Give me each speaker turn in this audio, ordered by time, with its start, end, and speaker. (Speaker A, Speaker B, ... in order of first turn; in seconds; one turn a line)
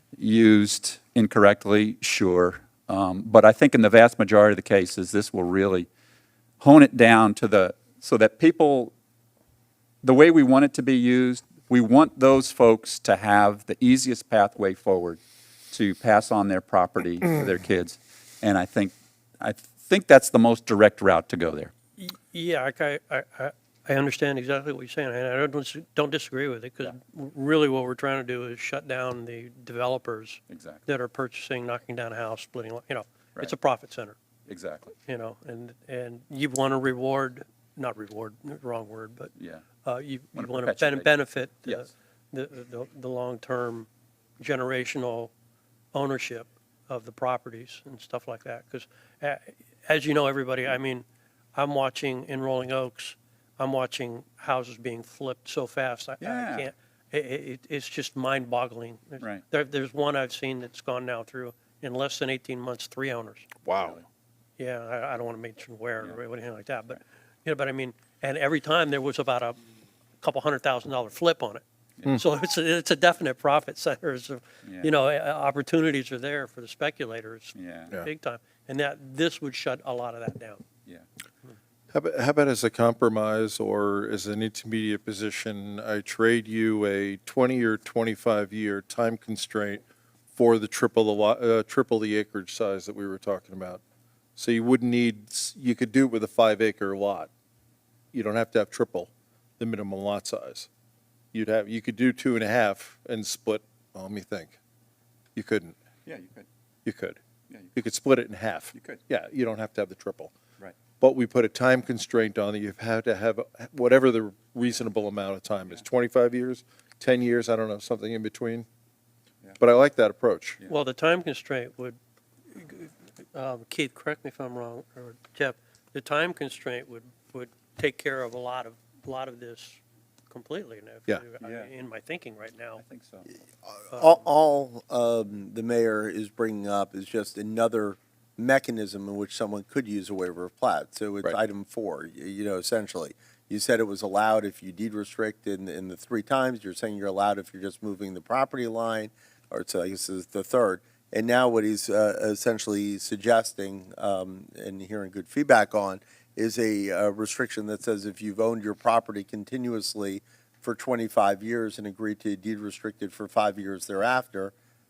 Speaker A: 0.1-5.9
Speaker A: 6.6-8.9
Speaker A: 10.0-15.2
Speaker A: 15.7-21.7
Speaker B: 22.0-34.2
Speaker A: 30.5-30.8
Speaker A: 34.5-34.9
Speaker B: 35.0-39.3
Speaker A: 39.4-39.6
Speaker B: 39.8-43.9
Speaker A: 40.3-41.1
Speaker B: 44.4-45.3
Speaker B: 45.9-63.5
Speaker A: 56.2-56.7
Speaker C: 63.6-64.0
Speaker B: 64.6-69.6
Speaker B: 70.2-71.6
Speaker B: 72.1-80.6
Speaker A: 77.5-77.9
Speaker C: 81.9-89.8
Speaker C: 90.3-93.8
Speaker C: 94.4-97.3
Speaker C: 98.1-100.7
Speaker C: 101.3-104.5
Speaker C: 105.3-105.8
Speaker A: 106.0-106.5
Speaker C: 106.8-107.2
Speaker C: 107.7-110.3
Speaker A: 108.7-109.0
Speaker C: 111.0-118.7
Speaker C: 119.6-120.6
Speaker B: 120.7-122.0
Speaker B: 122.5-132.8
Speaker A: 131.4-131.7
Speaker A: 132.8-133.3
Speaker D: 133.7-164.5
Speaker B: 133.9-134.2